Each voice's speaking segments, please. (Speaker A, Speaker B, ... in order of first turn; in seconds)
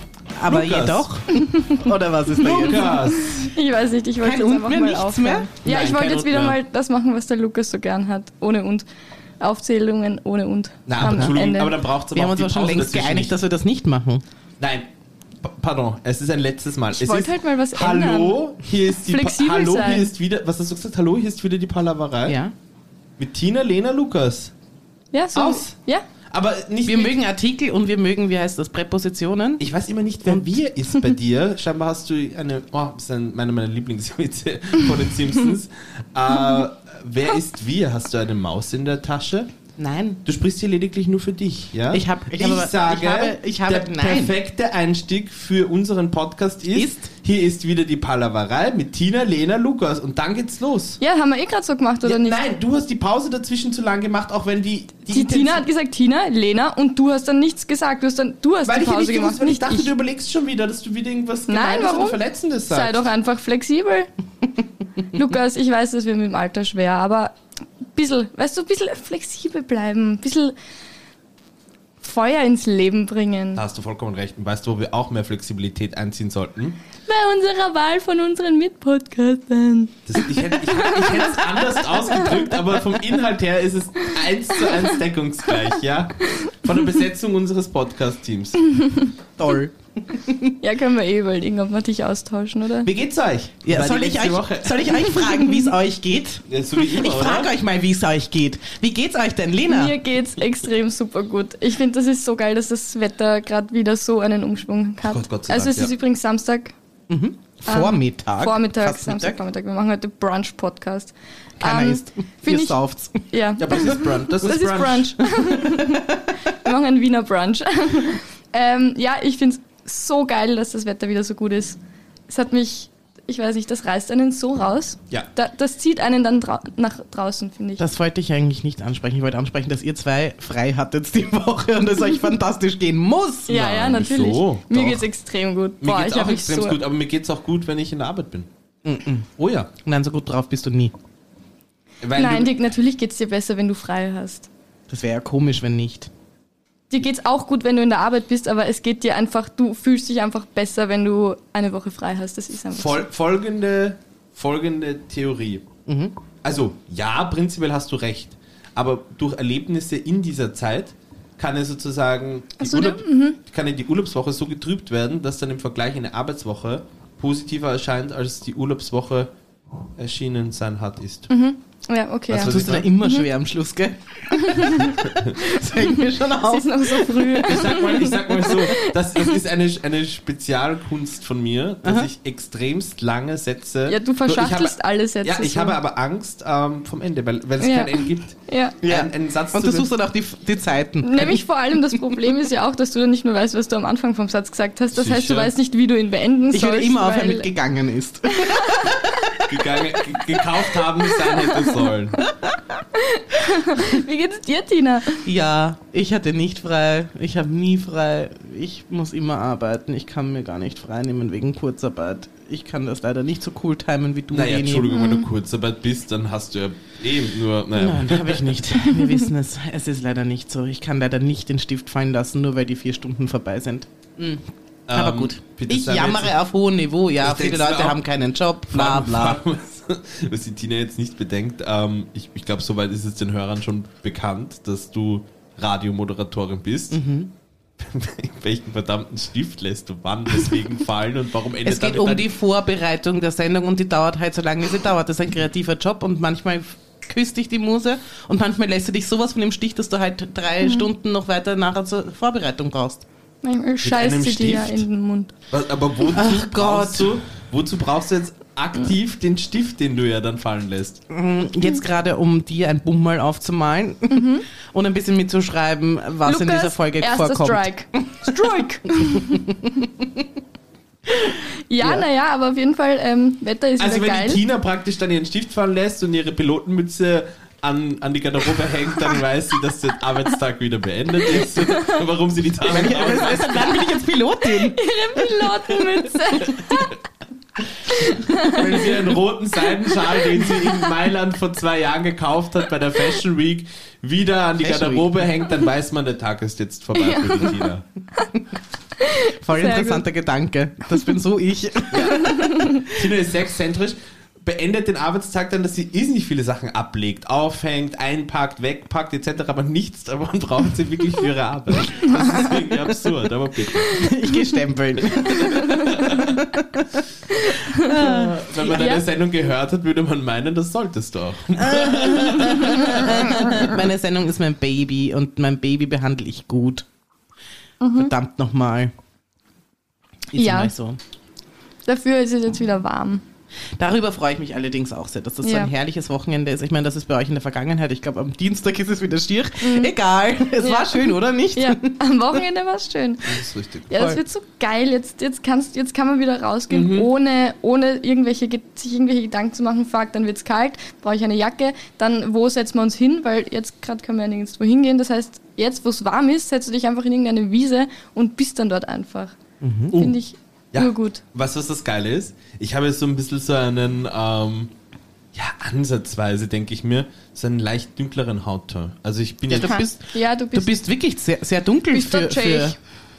Speaker A: 0.4-3.0, 4.2-5.5, 11.0-11.3, 12.1-14.2, 22.3-22.5, 26.9-29.6, 39.8-40.2, 41.9-44.4, 46.7-47.1, 89.4-90.6, 93.6-100.0, 107.1-109.4, 111.6-113.3, 127.8-133.5, 138.8-139.3, 139.8-140.9, 144.9-146.1, 155.9-156.1, 172.4-177.5, 181.8-182.1, 188.8-191.4, 196.5-199.5, 202.3-202.8, 205.2-214.9, 217.7-229.4, 236.9-237.3, 241.7-253.0, 256.1-257.2, 261.1-268.4, 269.2-270.3, 282.7-284.8, 288.5-288.9, 294.6-295.2, 299.4-302.7, 313.9-317.0, 317.8-318.5, 321.6-326.9, 327.9-328.9, 330.3-331.0, 333.8-342.0, 343.9-344.2, 359.6-360.0, 369.5-372.8
Speaker B: 0.5-1.1, 2.4-3.5, 5.6-6.6, 10.9-13.3, 14.6-14.9, 15.4-22.4, 23.2-24.5, 25.3-25.8, 26.3-27.2, 29.6-39.5, 40.2-51.0, 52.0-55.6, 58.6-63.0, 73.5-76.8, 80.1-88.7, 92.8-94.9, 96.5-97.5, 105.0-105.9, 113.6-115.3, 133.5-135.1, 135.8-138.5, 139.4-139.7, 142.0-142.5, 152.7-155.7, 156.4-169.3, 170.0-171.3, 172.3-172.9, 174.8-175.4, 177.4-189.9, 194.9-195.5, 199.5-202.2, 214.3-218.6, 224.9-226.3, 227.2-228.0, 228.7-237.0, 237.8-242.3, 253.8-254.9, 255.5-261.0, 273.8-283.8, 286.4-286.9, 288.4-297.9, 301.9-314.1, 315.0-316.4, 317.9-323.6, 343.2-343.9, 346.7-347.1, 360.7-364.7, 365.3-369.8
Speaker C: 1.4-1.9, 2.5-8.9, 9.4-11.8, 16.9-18.4, 19.0-20.1, 25.1-26.0, 51.0-52.4, 55.1-59.9, 61.5-64.1, 65.1-67.3, 67.9-70.5, 72.0-73.6, 77.1-82.4, 88.8-89.1, 90.6-92.9, 95.0-95.7, 99.7-106.7, 107.7-127.8, 133.5-136.8, 142.2-144.5, 146.9-153.0, 162.6-163.4, 171.3-173.3, 174.3-175.0, 175.6-179.3, 183.9-185.8, 187.6-188.8, 191.0-197.5, 198.4-198.9, 202.9-205.3, 214.9-215.3, 253.4-255.3, 264.1-264.4, 266.2-269.4, 271.2-274.4, 281.6-281.9, 284.6-287.0, 288.1-289.0, 290.0-290.7, 297.0-297.5, 299.0-300.0, 302.2-302.9, 315.6-315.9, 317.4-318.1, 318.6-319.0, 327.8-328.1, 330.4-330.7, 331.9-333.2, 335.4-335.7, 339.6-339.9, 340.4-359.4, 359.9-361.2, 369.6-370.8, 371.9-372.8